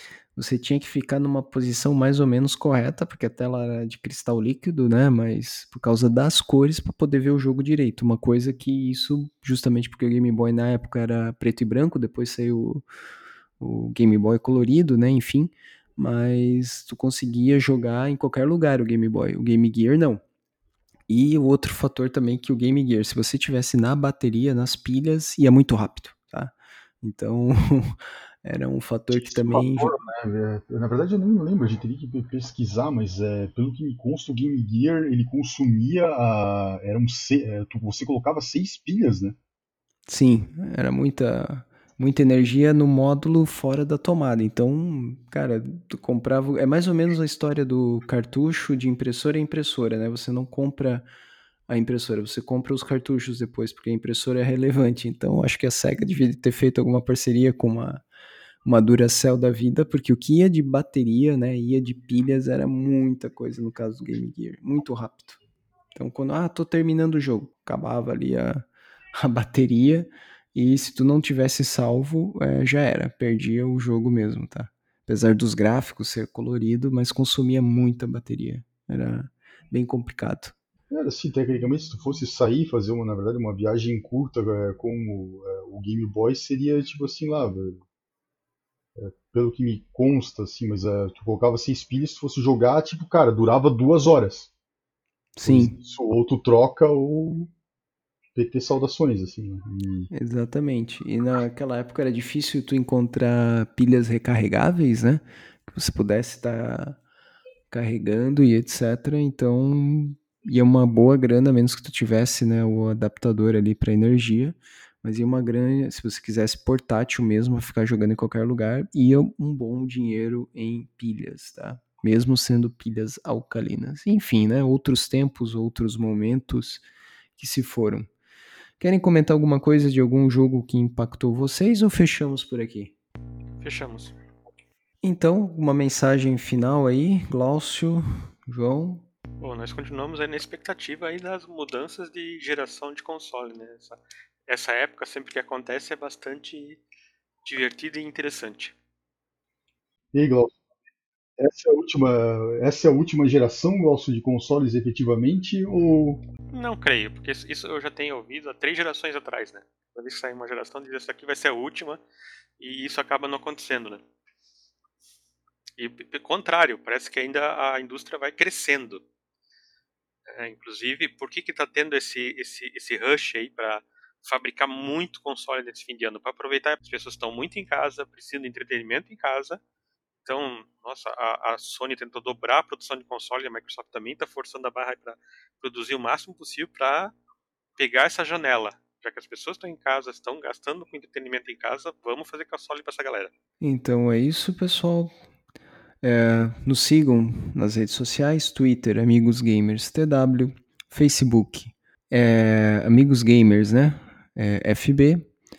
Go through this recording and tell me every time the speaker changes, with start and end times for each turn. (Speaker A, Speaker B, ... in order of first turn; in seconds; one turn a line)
Speaker A: 0.4-12.8
Speaker A: 13.6-20.2
Speaker A: 21.1-29.9
Speaker B: 29.1-39.4
Speaker A: 40.1-51.1
Speaker A: 51.7-58.0
Speaker A: 58.6-65.4
Speaker A: 66.0-68.6
Speaker A: 69.2-80.6
Speaker B: 80.9-87.8
Speaker B: 89.0-94.5
Speaker A: 95.4-95.8
Speaker B: 95.5-97.5
Speaker B: 98.3-100.1
Speaker A: 100.1-107.0
Speaker A: 107.7-126.8
Speaker A: 127.4-128.1
Speaker A: 128.8-132.9
Speaker C: 133.6-134.2
Speaker A: 135.0-139.1
Speaker C: 139.4-146.8
Speaker C: 147.4-148.8
Speaker B: 150.1-150.6
Speaker B: 151.4-156.2
Speaker C: 156.5-162.0
Speaker C: 162.6-164.0
Speaker C: 165.8-169.0
Speaker C: 170.3-179.6
Speaker C: 180.2-187.1
Speaker C: 187.8-193.3
Speaker A: 193.6-195.1
Speaker A: 196.0-205.3